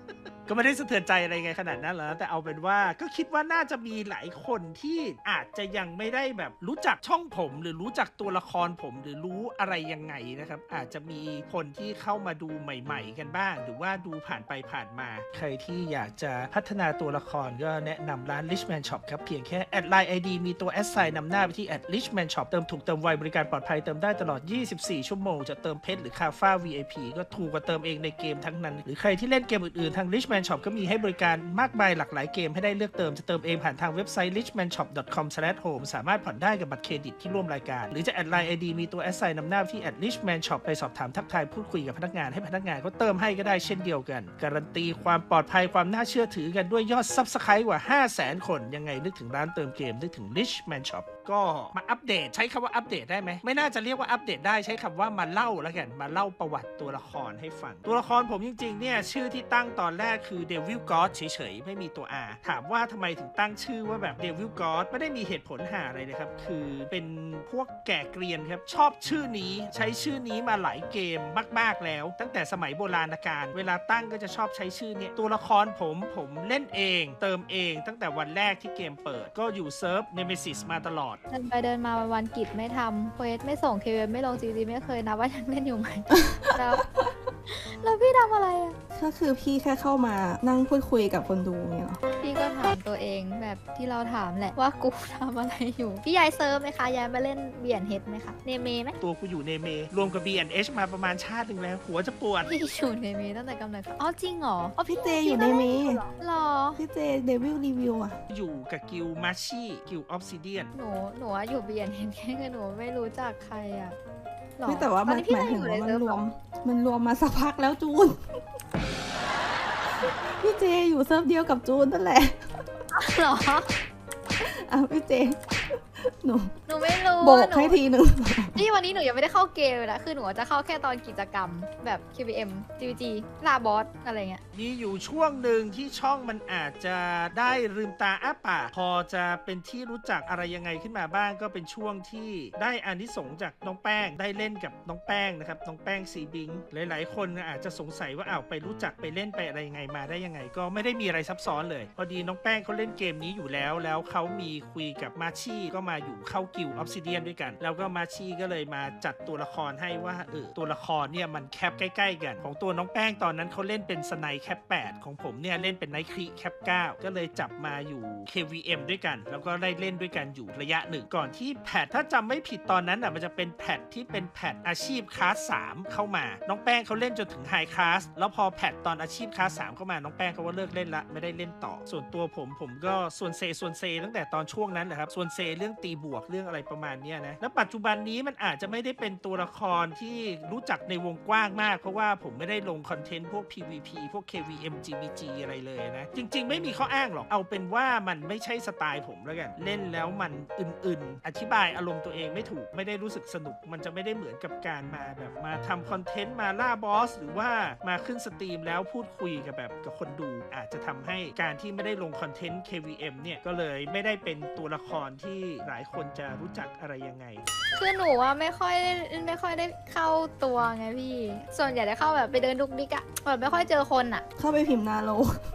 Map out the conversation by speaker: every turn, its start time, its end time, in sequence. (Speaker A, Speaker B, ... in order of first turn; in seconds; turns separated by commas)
Speaker A: 0.5-81.2, Speaker B: 81.3-86.9, Speaker B: 87.5-88.8, Speaker C: 88.9-92.0, Speaker B: 92.2-99.0, Speaker A: 99.0-102.5, Speaker B: 102.5-106.8, Speaker C: 104.9-106.0, Speaker C: 106.8-108.2, Speaker A: 108.3-110.7, Speaker B: 110.7-114.0, Speaker B: 114.6-116.2, Speaker C: 114.7-118.3, Speaker C: 120.0-122.4, Speaker B: 122.9-123.7, Speaker C: 124.4-125.4, Speaker C: 126.0-126.5, Speaker B: 126.7-127.8, Speaker C: 127.2-128.6, Speaker B: 128.6-134.4, Speaker A: 134.5-217.4, Speaker B: 217.8-224.2, Speaker C: 224.4-225.4